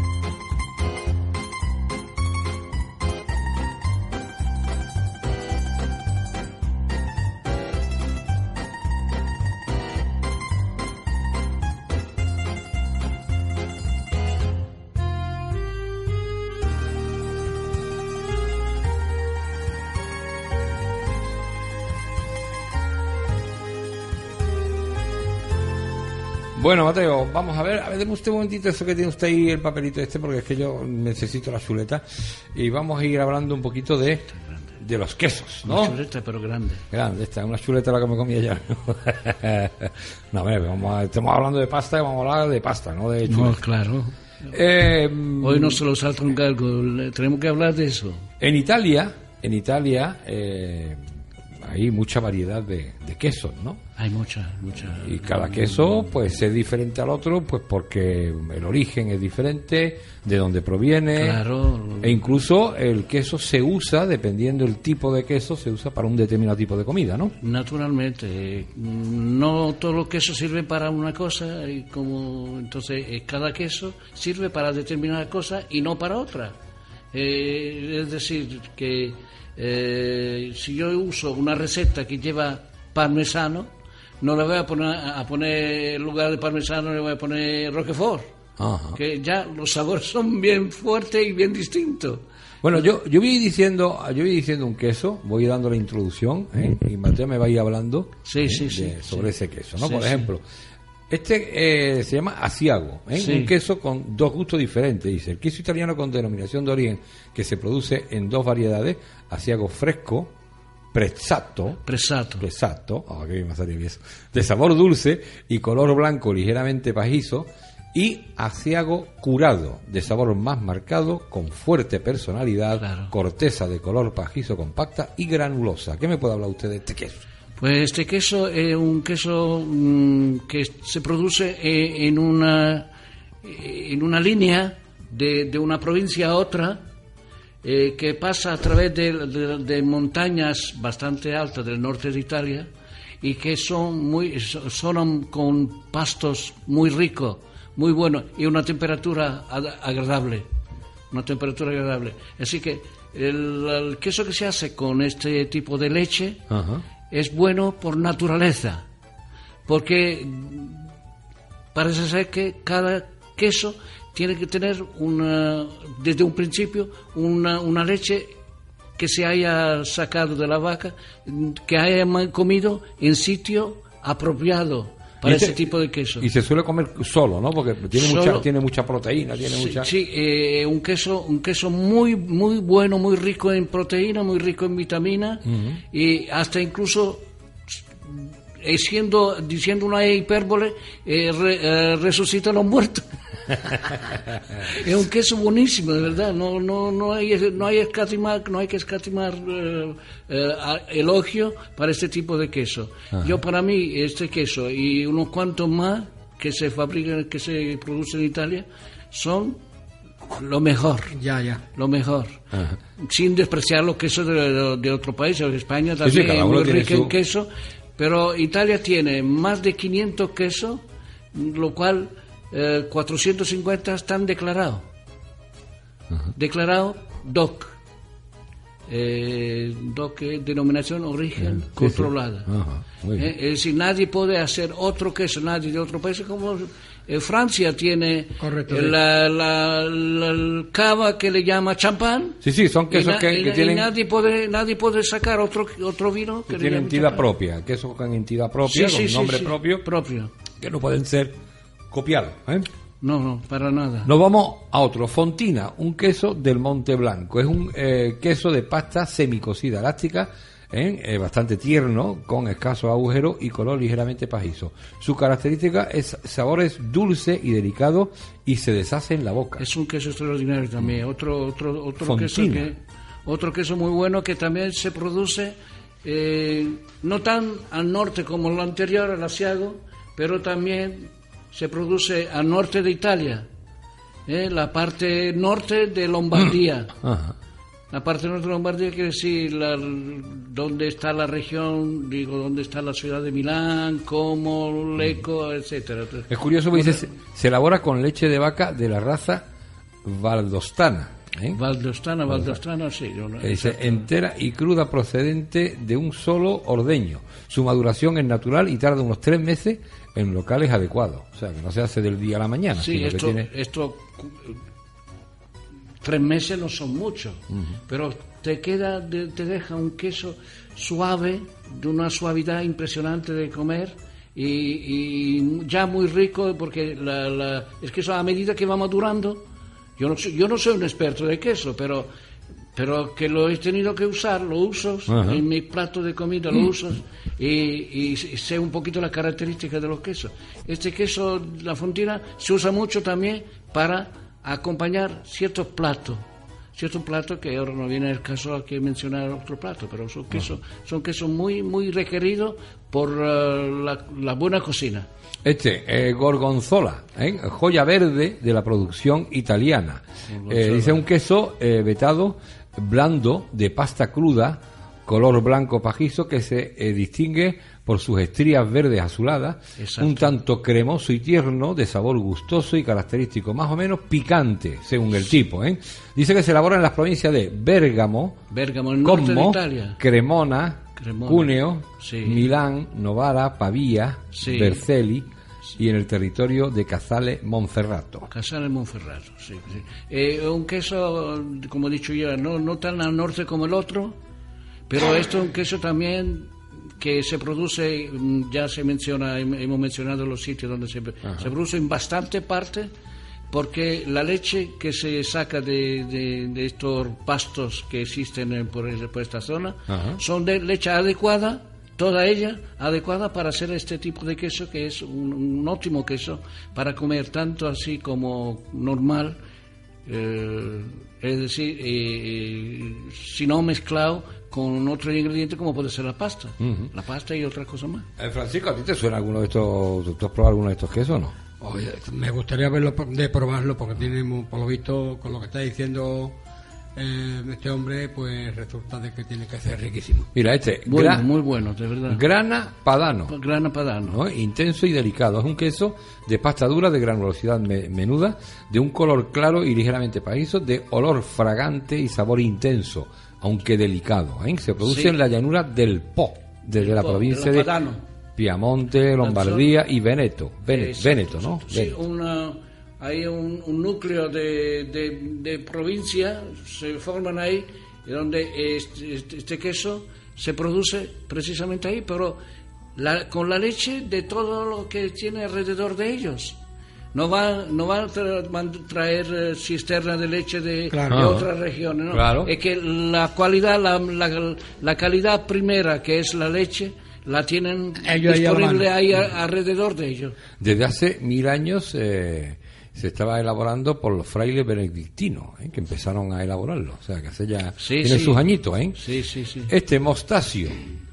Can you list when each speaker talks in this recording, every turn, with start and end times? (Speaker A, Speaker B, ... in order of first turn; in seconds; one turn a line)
Speaker A: 26.6-36.0
Speaker B: 35.6-36.9
Speaker A: 36.9-43.6
Speaker B: 43.3-44.1
Speaker A: 44.5-45.8
Speaker B: 45.4-48.3
Speaker A: 48.4-51.0
Speaker A: 51.6-53.8
Speaker B: 54.0-55.9
Speaker A: 54.9-61.4
Speaker B: 61.1-62.2
Speaker A: 62.0-67.3
Speaker B: 67.4-76.6
Speaker B: 77.1-83.7
Speaker B: 84.2-88.3
Speaker A: 88.6-89.0
Speaker B: 88.9-92.2
Speaker A: 92.6-100.4
Speaker B: 98.2-100.3
Speaker A: 101.1-110.3
Speaker B: 103.1-103.5
Speaker A: 110.9-111.8
Speaker B: 111.8-112.5
Speaker A: 112.4-127.2
Speaker B: 122.8-123.1
Speaker B: 127.6-132.9
Speaker B: 133.4-136.8
Speaker B: 137.6-142.7
Speaker B: 143.2-150.5
Speaker B: 151.1-156.4
Speaker A: 156.5-156.8
Speaker B: 157.1-158.9
Speaker B: 159.7-160.9
Speaker B: 161.7-168.3
Speaker B: 169.0-176.3
Speaker A: 175.2-175.6
Speaker A: 176.2-179.9
Speaker B: 177.9-178.5
Speaker B: 179.4-209.6
Speaker A: 185.5-185.8
Speaker B: 210.2-211.2
Speaker C: 211.1-211.6
Speaker B: 211.8-212.4
Speaker A: 212.5-212.8
Speaker B: 213.0-220.8
Speaker A: 216.0-217.1
Speaker B: 221.3-224.8
Speaker B: 226.3-227.8
Speaker B: 228.9-232.5
Speaker A: 231.4-233.3
Speaker B: 233.1-247.3
Speaker C: 238.4-239.0
Speaker A: 242.4-243.9
Speaker A: 246.5-249.8
Speaker B: 248.7-250.3
Speaker A: 250.6-251.3
Speaker A: 251.9-252.7
Speaker B: 253.0-254.1
Speaker A: 254.0-269.7
Speaker B: 269.6-283.5
Speaker A: 272.0-272.7
Speaker B: 284.2-287.0
Speaker A: 287.0-287.4
Speaker B: 287.9-297.0
Speaker A: 296.3-299.4
Speaker A: 300.1-301.6
Speaker B: 301.5-304.1
Speaker A: 303.4-313.5
Speaker B: 312.8-314.6
Speaker B: 316.0-329.4
Speaker B: 330.0-332.1
Speaker B: 332.8-346.2
Speaker A: 335.1-335.4
Speaker B: 346.8-355.1
Speaker A: 355.4-378.4
Speaker B: 360.3-361.1
Speaker B: 369.8-370.3
Speaker B: 378.5-380.0
Speaker A: 379.0-388.3
Speaker B: 381.0-382.5
Speaker B: 384.3-384.9
Speaker B: 388.3-394.2
Speaker B: 394.9-402.9
Speaker B: 403.5-419.4
Speaker A: 409.9-410.2
Speaker B: 420.1-428.1
Speaker A: 426.6-426.9
Speaker A: 428.2-431.4
Speaker C: 431.6-436.4
Speaker C: 437.0-440.3
Speaker A: 440.3-441.3
Speaker B: 440.9-442.2
Speaker A: 442.1-443.4
Speaker B: 443.3-444.2
Speaker A: 444.0-457.7
Speaker B: 454.8-455.2
Speaker B: 456.8-458.0
Speaker A: 458.4-462.0
Speaker B: 459.2-459.7
Speaker B: 460.7-472.4
Speaker B: 473.0-476.6
Speaker B: 477.1-490.4
Speaker C: 480.9-481.4
Speaker A: 481.1-481.5
Speaker A: 482.1-482.5
Speaker C: 488.0-488.9
Speaker A: 490.6-499.0
Speaker B: 497.8-498.4
Speaker B: 498.9-499.7
Speaker A: 499.7-500.8